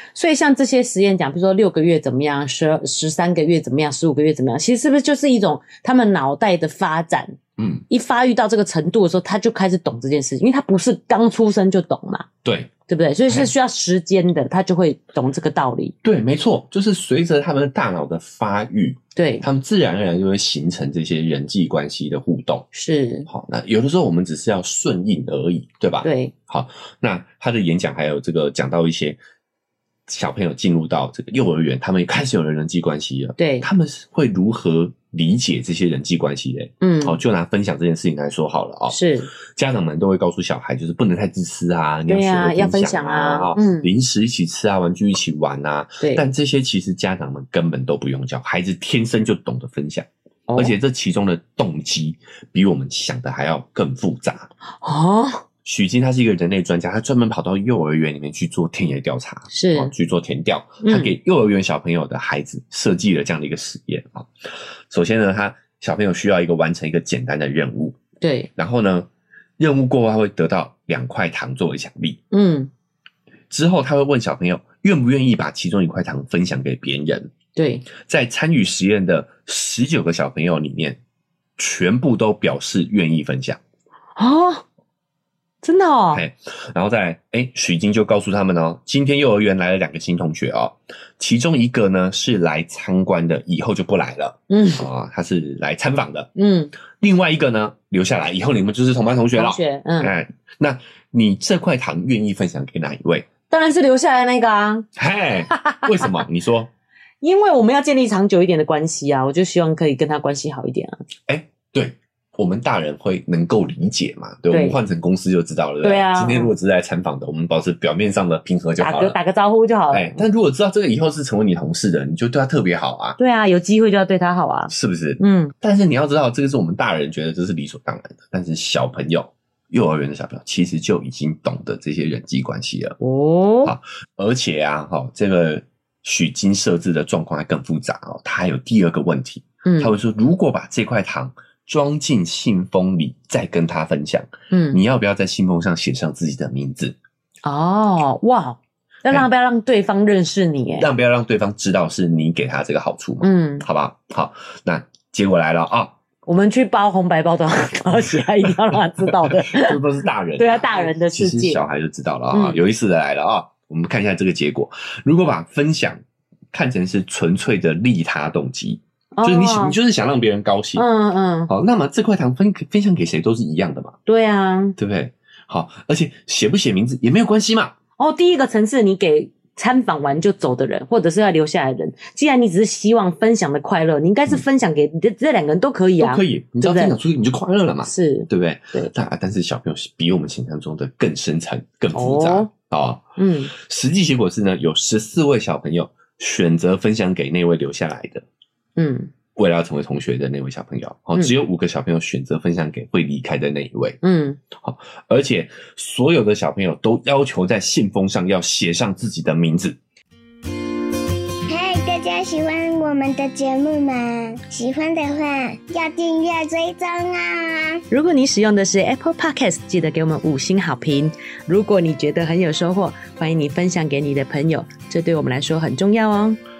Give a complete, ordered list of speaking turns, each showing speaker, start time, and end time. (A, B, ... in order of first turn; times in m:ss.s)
0:00.2-0:12.3 A
0:07.6-0:07.8 B
0:12.4-0:12.7 B
0:12.9-0:16.0 A
0:16.0-0:22.7 B
0:19.2-0:19.4 A
0:22.7-0:23.3 A
0:23.3-0:29.2 B
0:26.0-0:26.3 A
0:30.1-0:39.0 B
0:33.4-0:33.7 A
0:36.8-0:37.2 A
0:38.9-0:39.3 A
0:39.5-0:54.5 B
0:42.1-0:43.9 A
0:50.5-0:50.8 A
0:54.8-0:55.4 A
0:55.6-1:04.3 B
0:59.5-0:59.9 A
1:00.8-1:01.1 A
1:04.9-1:08.0 B
1:08.2-1:08.5 A
1:08.6-1:12.2 B
1:12.3-1:12.7 A
1:13.5-1:17.3 B
1:17.6-1:17.9 A
1:18.0-1:21.0 B
1:21.6-1:23.6 B
1:24.2-1:24.6 A
1:25.6-1:26.2 A
1:26.1-1:36.3 B
1:34.5-1:34.8 A
1:36.4-1:36.7 A
1:36.9-1:43.3 B
1:39.4-1:40.1 A
1:43.5-1:44.9 A
1:45.0-1:46.7 B
1:45.5-1:46.1 A
1:47.2-1:51.0 A
1:51.3-1:59.2 B
1:54.5-1:54.8 A
1:55.8-1:56.5 A
1:58.8-2:00.2 A
1:59.9-2:03.2 B
2:03.2-2:05.5 A
2:04.7-2:13.0 B
2:13.0-2:13.8 A
2:13.6-2:27.0 B
2:19.6-2:19.9 A
2:24.5-2:24.8 A
2:27.4-2:30.9 A
2:30.8-2:36.0 B
2:33.2-2:33.7 A
2:36.3-2:39.8 A
2:39.1-2:46.0 B
2:40.4-2:41.6 A
2:42.3-2:42.6 A
2:46.5-2:50.8 B
2:49.2-2:49.8 A
2:50.8-2:51.5 A
2:51.5-2:54.0 B
2:54.1-2:54.8 A
2:54.8-2:57.8 B
2:58.0-3:07.0 A
3:06.0-3:18.2 B
3:07.8-3:08.9 A
3:11.9-3:12.5 A
3:13.2-3:13.5 A
3:18.8-3:19.1 A
3:19.4-3:24.0 B
3:24.0-3:24.4 A
3:24.6-3:29.8 B
3:31.5-3:37.8 C
3:37.9-3:46.4 A